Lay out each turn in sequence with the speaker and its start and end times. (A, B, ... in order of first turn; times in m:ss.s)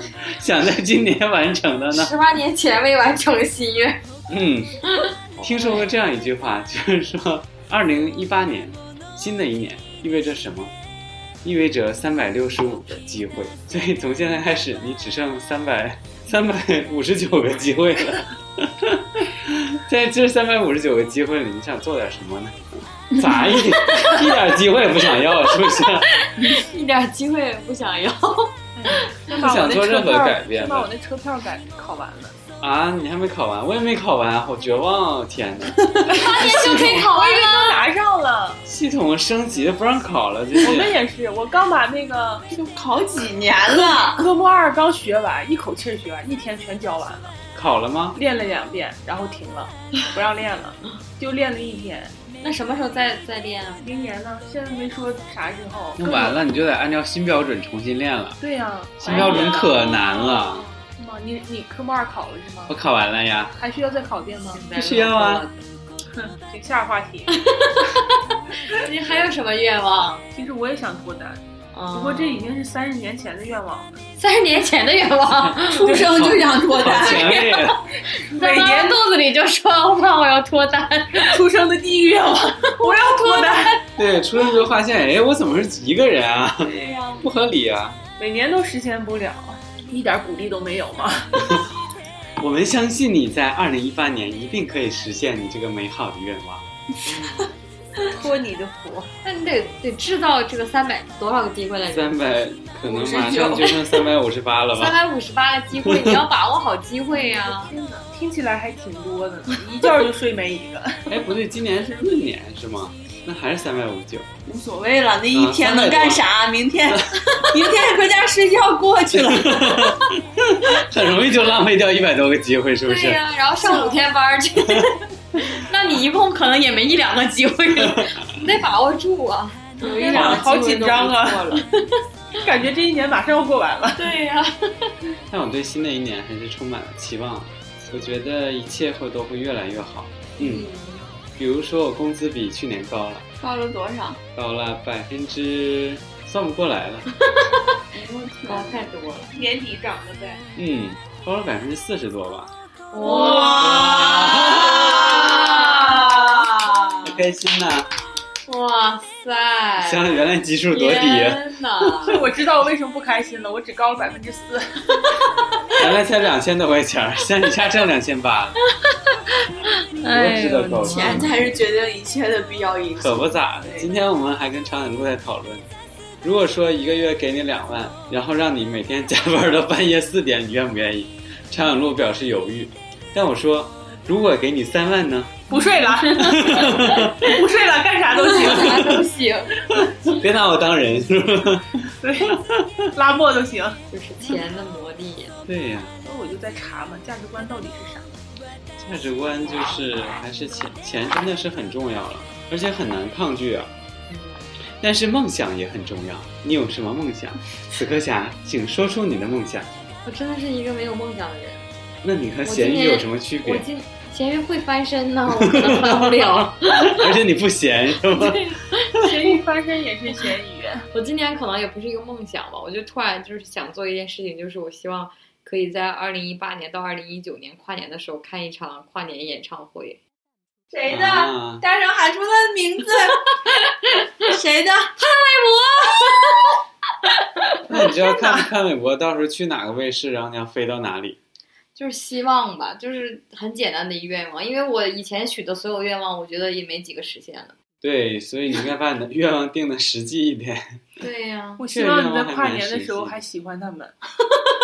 0:00.2-0:02.1 A
0:01.9-0:04.0 B
0:04.3-0:04.7 A
0:05.0-0:05.7 B
0:05.4-0:10.7 A
0:11.4-0:26.1 A
0:26.2-0:29.3 B
0:28.7-0:32.4 C
0:29.4-0:30.9 A
0:32.6-0:37.1 A
0:36.0-0:37.9 B
0:36.1-0:38.6 C
0:38.6-0:41.0 A
0:40.6-0:42.5 C
0:42.5-0:44.3 D
0:43.7-0:47.3 C
0:47.5-0:48.2 A
0:48.1-0:52.2 C
0:52.4-0:53.8 B
0:53.8-0:56.3 C
0:56.0-0:58.4 A
0:58.4-1:00.0 C
0:59.0-1:00.6 A
0:59.1-1:00.6 B
1:01.0-1:02.8 C
1:02.7-1:03.5 A
1:03.6-1:04.6 C
1:04.5-1:05.6 B
1:04.8-1:05.5 A
1:06.2-1:07.4 C
1:07.3-1:10.2 B
1:10.3-1:11.4 C
1:11.7-1:12.5 B
1:11.9-1:14.0 C
1:14.2-1:16.0 B
1:15.3-1:17.8 A
1:15.7-1:17.4 D
1:17.0-1:21.4 B
1:18.1-1:19.0 C
1:21.1-1:23.8 C
1:22.8-1:23.7 B
1:24.0-1:28.0 A
1:26.6-1:27.2 D
1:28.2-1:31.5 C
1:31.4-1:31.7 A
1:32.4-1:37.4 A
1:37.0-1:37.5 D
1:38.1-1:39.1 C
1:39.2-1:42.1 B
1:41.9-1:45.0 A
1:42.8-1:44.1 D
1:44.7-1:47.8 B
1:45.8-1:46.2 A
1:47.1-1:50.9 C
1:51.1-1:54.3 A
1:54.4-2:00.0 D
1:55.3-1:56.2 A
1:56.9-1:57.2 A
1:59.1-2:03.2 A
2:02.8-2:10.3 B
2:03.6-2:04.0 D
2:07.8-2:08.1 A
2:09.8-2:11.6 D
2:09.8-2:11.6 C
2:10.1-2:10.4 A
2:12.3-2:14.1 C
2:14.0-2:14.9 B
2:15.3-2:20.6 A
2:20.4-2:21.0 D
2:21.4-2:23.2 A
2:23.4-2:24.2 D
2:24.4-2:27.1 A
2:27.9-2:28.9 D
2:28.5-2:29.3 B
2:29.3-2:30.4 C
2:30.6-2:32.5 A
2:32.9-2:37.1 B
2:33.0-2:36.5 D
2:33.5-2:35.3 A
2:37.0-2:37.9 A
2:38.4-2:42.2 B
2:39.8-2:42.1 A
2:42.0-2:44.6 C
2:45.8-2:48.6 A
2:49.3-2:51.4 B
2:50.0-2:51.4 A
2:50.8-2:53.9 D
2:53.0-2:55.7 A
2:56.2-3:05.4 A
3:05.5-3:09.0 C
3:05.5-3:07.1 B
3:06.2-3:07.3 A
3:08.1-3:10.2 B
3:08.4-3:09.0 A
3:09.8-3:11.9 A
3:12.0-3:12.4 C
3:12.5-3:12.8 A
3:12.9-3:13.8 C
3:13.9-3:15.3 B
3:15.4-3:15.9 A
3:16.0-3:18.1 C
3:18.8-3:23.7 A
3:24.1-3:24.5 B
3:24.8-3:29.7 A
3:30.0-3:31.6 B
3:32.0-3:33.6 A
3:32.4-3:37.1 B
3:35.4-3:38.4 A
3:38.1-3:38.9 B
3:39.0-3:40.8 C
3:40.9-3:50.0 B
3:50.7-3:53.4 D
3:50.9-3:51.6 A
3:53.3-3:54.1 B
3:54.2-3:54.9 D
3:55.0-3:57.6 B
3:57.7-4:01.2 A
3:57.7-3:58.5 C
4:01.8-4:07.5 B
4:07.8-4:10.8 A
4:11.0-4:11.6 B
4:11.6-4:13.9 C
4:11.7-4:13.2 A